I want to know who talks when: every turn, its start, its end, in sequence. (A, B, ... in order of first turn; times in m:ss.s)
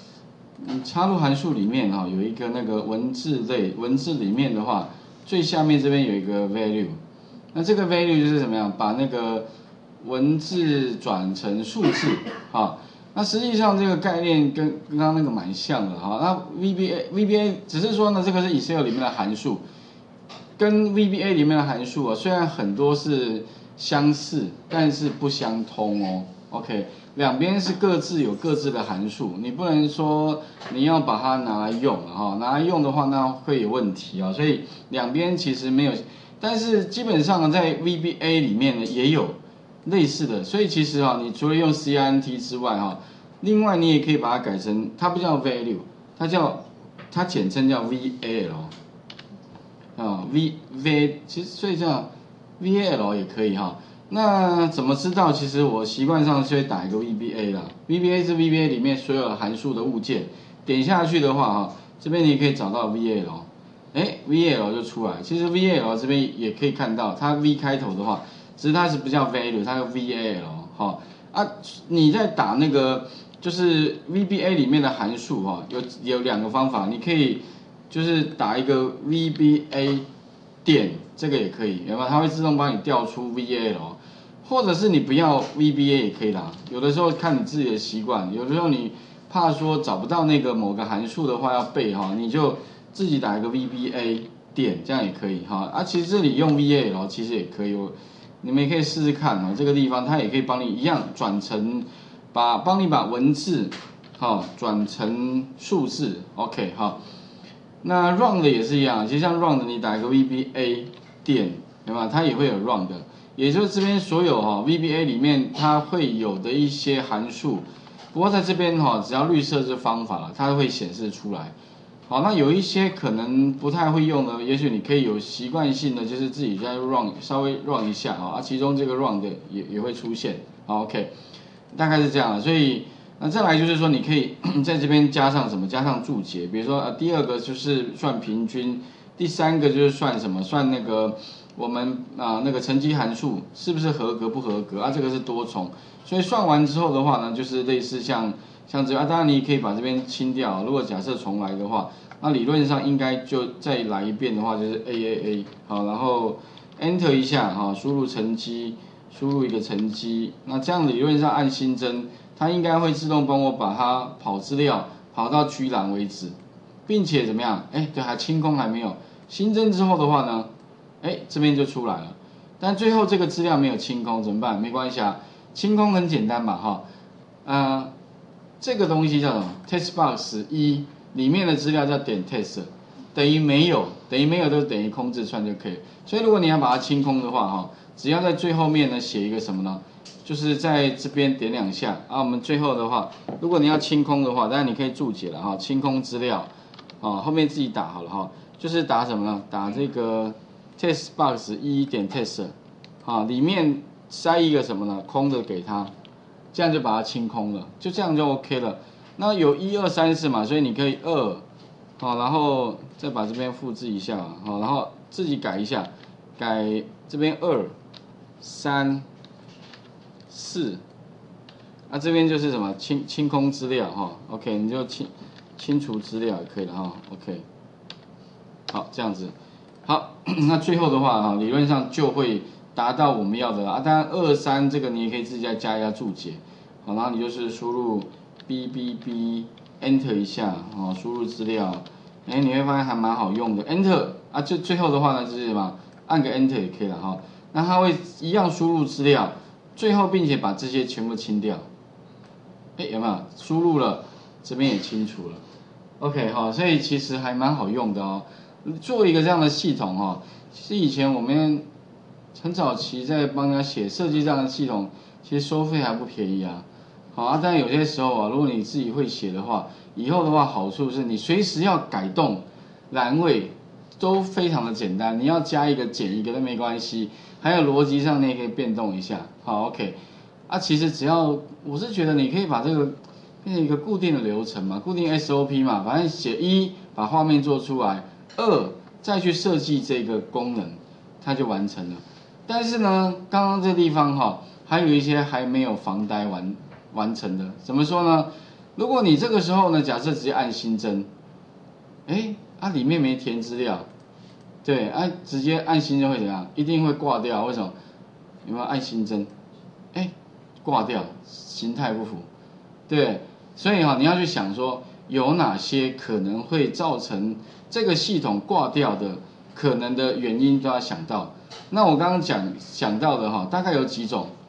0:00.6-0:07.0 A
0:07.5-0:09.4 A
0:10.0-0:19.6 A
0:20.6-0:48.7 A
0:50.0-1:20.0 A
1:20.6-1:47.0 A
1:47.8-2:01.5 A
2:02.1-2:11.1 A
2:11.7-2:46.3 A
2:46.9-2:50.5 A
2:51.0-2:56.8 A
2:57.4-2:57.9 A
2:58.6-3:16.5 A
3:17.0-3:25.9 A
3:26.5-3:31.4 A
3:32.0-3:37.7 A
3:38.4-3:39.0 A
3:40.3-3:40.8 A
3:41.9-3:47.4 A
3:48.7-3:49.3 A
3:49.8-4:11.6 A
4:12.8-4:15.4 A
4:16.0-4:21.6 A
4:22.3-5:01.1 A
5:02.1-5:03.9 A
5:04.6-5:07.7 A
5:08.4-5:09.3 A
5:09.9-5:12.3 A
5:12.9-5:24.3 A